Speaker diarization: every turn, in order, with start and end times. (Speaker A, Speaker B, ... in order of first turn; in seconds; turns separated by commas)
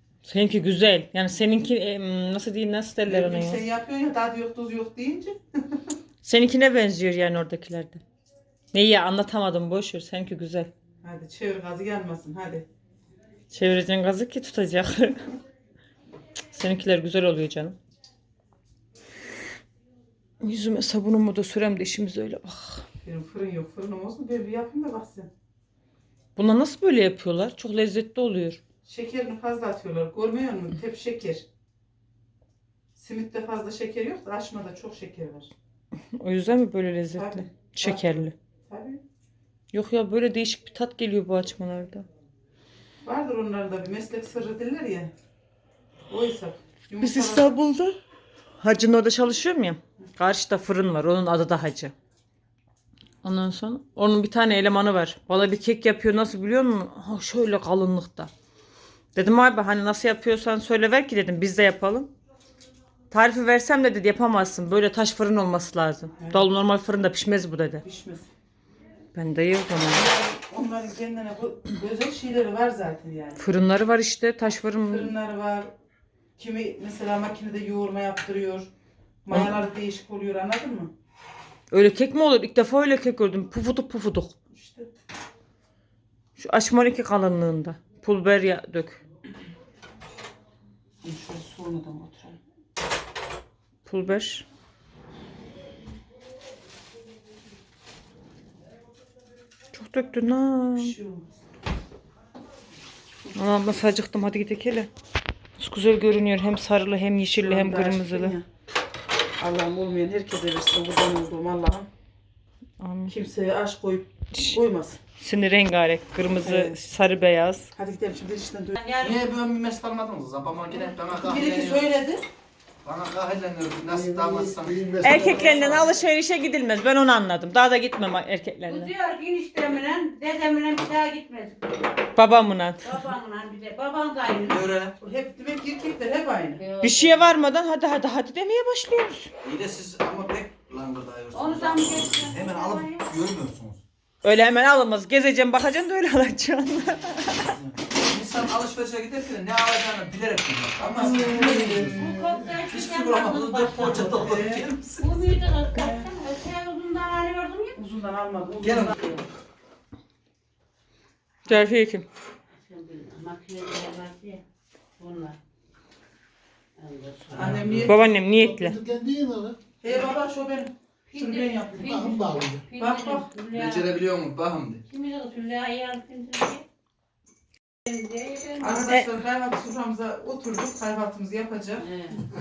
Speaker A: 0.2-3.6, Speaker B: 3.0-5.9, Speaker A: 6.2-8.0, Speaker A: 8.7-10.7, Speaker B: 11.0-12.7, Speaker A: 13.5-15.2, Speaker A: 16.5-17.8, Speaker A: 20.4-22.9, Speaker B: 23.0-25.3, Speaker A: 26.4-28.6, Speaker B: 28.9-31.5, Speaker B: 33.0-35.5, Speaker A: 36.1-38.3, Speaker B: 37.1-39.0, Speaker A: 39.7-42.1, Speaker B: 43.0-45.1, Speaker B: 46.1-47.6, Speaker A: 47.0-48.0, Speaker A: 48.6-51.9, Speaker A: 53.2-58.3, Speaker A: 59.1-62.1, Speaker A: 63.1-67.8, Speaker B: 66.2-66.5, Speaker B: 67.8-68.3, Speaker A: 69.1-70.0, Speaker B: 69.9-73.5, Speaker A: 73.4-75.1, Speaker B: 74.9-75.7, Speaker B: 76.4-78.7, Speaker B: 79.2-80.9, Speaker A: 79.3-79.6, Speaker A: 81.7-84.3, Speaker B: 84.5-84.9, Speaker A: 86.4-89.0, Speaker B: 91.0-92.4, Speaker A: 93.9-94.5, Speaker A: 99.7-101.0, Speaker B: 100.8-101.3, Speaker A: 103.3-104.9, Speaker A: 105.6-108.4, Speaker B: 107.4-108.5, Speaker B: 109.4-111.9, Speaker A: 112.8-113.1, Speaker B: 113.1-115.0, Speaker A: 115.2-117.7, Speaker B: 116.4-116.8, Speaker B: 117.8-118.8, Speaker C: 118.8-119.2, Speaker D: 119.0-121.9, Speaker B: 121.2-122.2, Speaker D: 122.8-125.9, Speaker A: 125.0-128.9, Speaker C: 128.7-132.0, Speaker A: 132.2-133.0, Speaker C: 132.8-134.6, Speaker D: 134.4-134.9, Speaker B: 135.0-136.6, Speaker C: 136.6-137.4, Speaker A: 136.8-139.3, Speaker D: 139.4-143.8, Speaker C: 141.3-143.1, Speaker A: 144.2-147.6, Speaker D: 147.3-155.4, Speaker B: 150.8-152.1, Speaker A: 151.0-151.9, Speaker C: 151.9-154.3, Speaker B: 153.4-154.7, Speaker C: 155.0-157.8, Speaker B: 155.7-156.1, Speaker B: 157.8-159.0, Speaker D: 158.6-159.0, Speaker A: 161.5-162.1, Speaker C: 162.6-164.4, Speaker C: 165.0-165.4, Speaker C: 166.8-167.7, Speaker D: 167.3-167.9, Speaker B: 167.3-167.9, Speaker A: 167.8-168.8, Speaker B: 169.8-172.2, Speaker C: 171.1-174.0, Speaker B: 172.8-173.3, Speaker D: 173.5-174.8, Speaker C: 174.9-176.6, Speaker C: 177.9-178.9, Speaker B: 178.6-181.9, Speaker C: 181.8-182.2